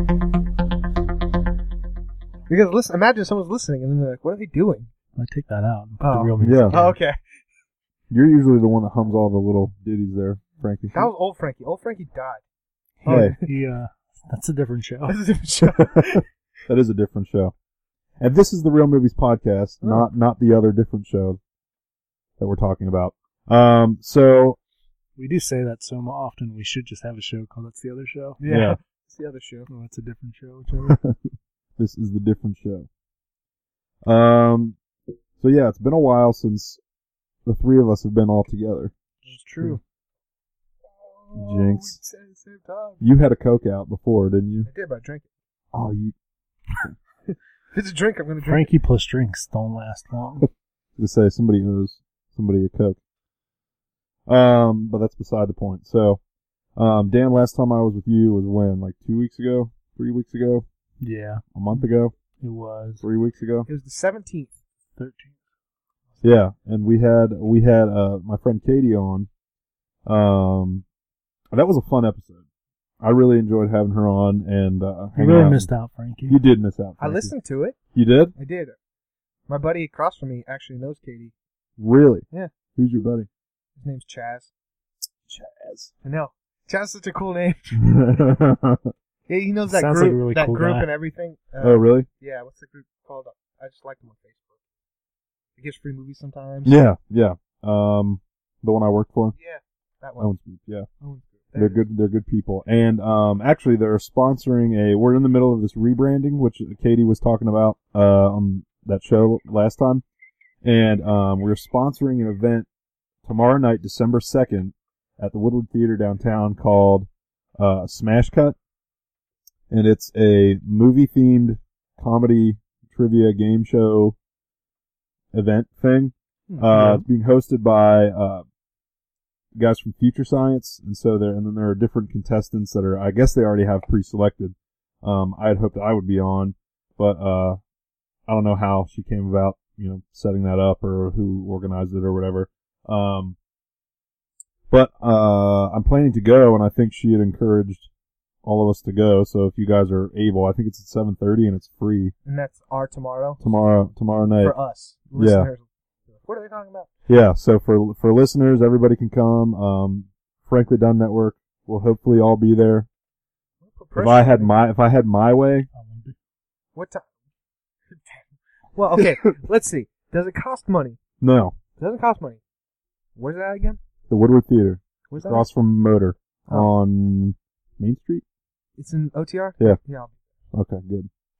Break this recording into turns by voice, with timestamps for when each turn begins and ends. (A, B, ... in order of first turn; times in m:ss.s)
0:02.5-0:04.9 A
0:05.1-0:07.0 B
0:06.0-0:07.2 A
0:06.4-0:06.8 C
0:08.1-0:11.1 C
0:10.9-0:12.4 A
0:13.0-0:15.2 B
0:13.0-0:13.5 A
0:13.0-0:13.4 C
0:15.1-0:16.2 A
0:15.7-0:17.5 C
0:18.2-0:21.4 C
0:19.8-0:20.1 A
0:22.4-0:24.6 C
0:25.2-0:28.4 B
0:28.4-0:29.7 A
0:28.4-0:28.8 C
0:29.7-0:31.0 B
0:30.8-0:31.2 C
0:31.8-0:32.9 C
0:34.0-0:34.8 C
0:35.4-0:36.8 C
0:37.4-0:38.9 C
0:39.2-0:39.8 A
0:40.8-0:43.0 A
0:41.3-0:42.0 C
0:43.0-0:44.7 C
0:44.6-0:45.2 A
0:45.7-0:46.1 C
0:47.3-0:48.7 A
0:48.4-0:50.5 B
0:51.0-0:53.0 C
0:54.3-0:56.2 C
0:56.8-1:00.6 C
1:01.0-1:01.4 B
1:01.5-1:02.1 C
1:02.4-1:03.0 B
1:03.0-1:03.7 C
1:03.7-1:04.6 A
1:05.0-1:05.3 B
1:06.2-1:09.3 C
1:10.0-1:10.8 C
1:11.5-1:12.4 C
1:13.0-1:15.7 C
1:15.1-1:16.4 B
1:16.3-1:17.3 C
1:17.0-1:17.8 A
1:17.9-1:18.3 C
1:18.4-1:18.8 A
1:19.5-1:21.3 A
1:21.8-1:23.3 C
1:23.8-1:24.5 A
1:25.3-1:25.9 C
1:26.0-1:27.8 A
1:27.7-1:28.9 C
1:29.3-1:34.6 A
1:29.7-1:30.9 B
1:31.6-1:32.1 C
1:35.6-1:36.8 A
1:36.6-1:39.4 C
1:39.4-1:40.3 A
1:40.2-1:40.9 C
1:41.0-1:41.8 A
1:41.6-1:50.0 C
1:50.6-1:52.7 C
1:53.2-1:58.6 C
1:59.7-2:04.2 C
2:05.3-2:08.4 C
2:06.5-2:06.8 A
2:06.7-2:07.0 B
2:09.5-2:17.6 C
2:18.3-2:23.4 C
2:24.7-2:27.9 C
2:28.4-2:32.1 C
2:32.2-2:33.5 A
2:33.4-2:34.5 C
2:34.4-2:36.9 A
2:35.1-2:35.5 C
2:37.1-2:42.9 C
2:43.6-2:44.5 A
2:44.0-2:45.7 C
2:45.7-2:46.2 B
2:46.7-2:47.1 A
2:47.9-2:51.0 A
2:51.2-2:51.6 C
2:51.8-2:52.4 A
2:53.2-2:53.8 A
2:54.1-2:58.2 C
2:55.1-2:55.5 A
2:58.8-3:00.1 A
3:00.5-3:01.1 C